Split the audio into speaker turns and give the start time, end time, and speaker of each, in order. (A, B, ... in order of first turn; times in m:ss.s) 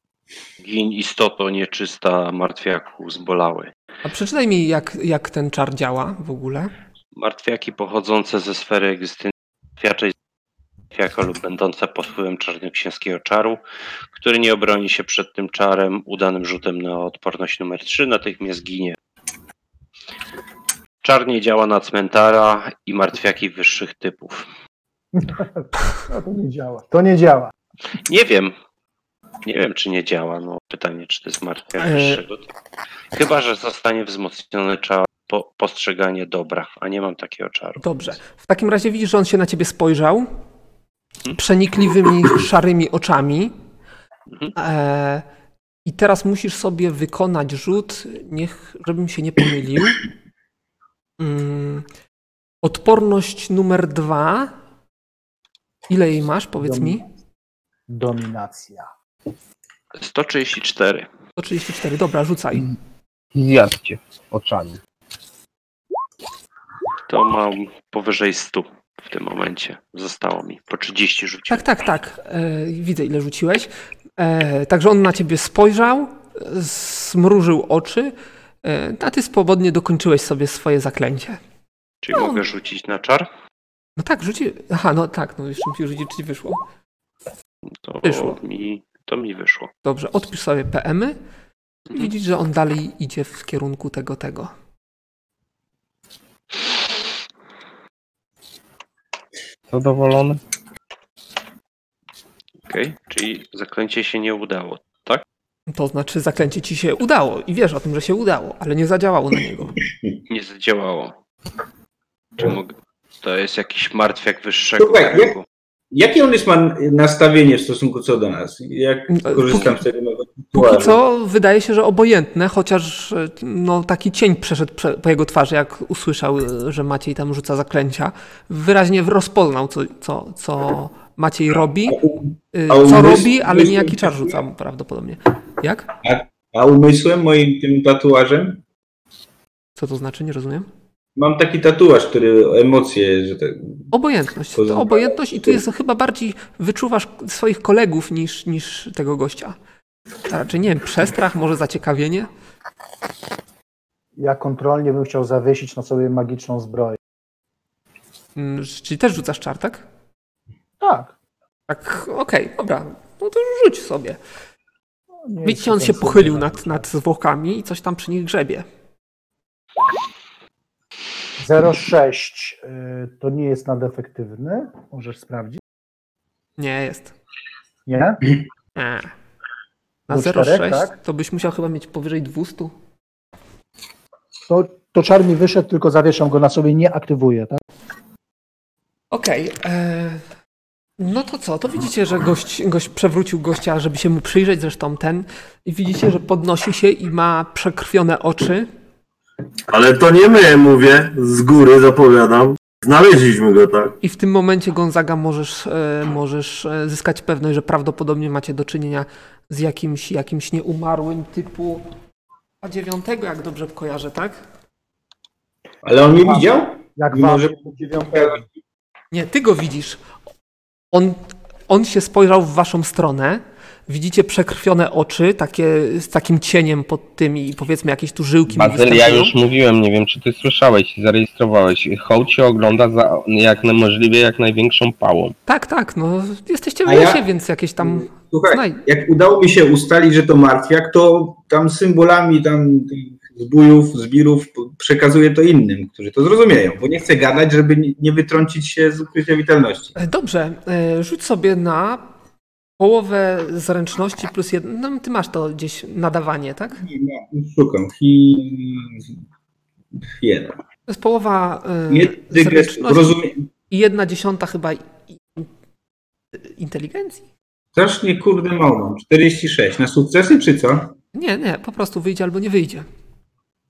0:00.6-0:03.7 A
0:04.0-0:06.7 B
0:07.2-0:10.1 A
0:10.9-0:13.6 A
0:14.1-0:19.0 A
0:21.0-0:24.4 A
0:25.1-0:27.5 C
0:28.0-0:28.5 A
0:29.4-0:32.4 A
0:31.8-0:32.2 B
0:33.1-0:37.8 A
0:37.8-0:40.3 B
0:41.4-0:43.5 B
0:44.6-0:45.2 B
0:45.9-0:50.0 B
0:51.2-0:51.9 B
0:52.6-0:54.5 B
0:55.9-0:57.0 B
0:56.6-0:57.0 C
0:57.9-0:58.9 C
1:00.0-1:01.1 A
1:01.4-1:02.7 B
1:03.4-1:04.8 D
1:07.1-1:11.7 A
1:11.5-1:21.4 B
1:22.0-1:23.3 A
1:22.1-1:22.4 B
1:24.0-1:26.6 B
1:27.8-1:29.7 A
1:28.0-1:28.4 B
1:29.8-1:31.2 B
1:31.9-1:34.5 B
1:39.7-1:40.4 D
1:42.7-1:45.2 A
1:45.7-1:49.8 B
1:50.3-1:51.2 A
1:52.4-1:55.4 A
1:54.8-1:55.3 E
1:55.9-2:01.0 E
1:59.1-1:59.7 B
2:00.5-2:12.0 B
2:11.9-2:14.4 E
2:12.5-2:15.9 B
2:16.0-2:18.6 E
2:19.8-2:20.7 B
2:21.2-2:23.8 E
2:23.9-2:29.6 B
2:24.6-2:25.6 E
2:30.3-2:32.3 B
2:34.2-2:37.0 C
2:38.4-2:39.8 B
2:40.8-2:41.1 C
2:41.7-2:44.2 B
2:45.3-2:46.8 C
2:45.4-2:48.7 B
2:51.4-2:55.6 C
2:56.6-2:57.1 B
2:57.9-2:58.2 C
2:58.8-2:59.1 B
3:00.1-3:00.9 C
3:00.1-3:02.7 B
3:04.5-3:07.6 C
3:09.1-3:10.2 B
3:11.0-3:18.7 B
3:19.7-3:24.0 F
3:24.0-3:31.8 B
3:32.6-3:34.4 B
3:35.8-3:38.5 E
3:36.2-3:38.4 C
3:39.1-3:40.0 B
3:40.9-3:49.3 B
3:48.5-3:55.3 D
3:55.5-3:58.8 B
3:56.8-3:57.2 E
3:57.8-4:09.9 E
4:10.0-4:12.1 B
4:12.8-4:16.8 B
4:16.8-4:19.1 E
4:20.2-4:20.6 E
4:20.9-4:23.2 B
4:21.9-4:23.5 E
4:23.7-4:25.5 B
4:26.4-4:27.2 B
4:27.8-4:31.0 E
4:31.1-4:32.9 B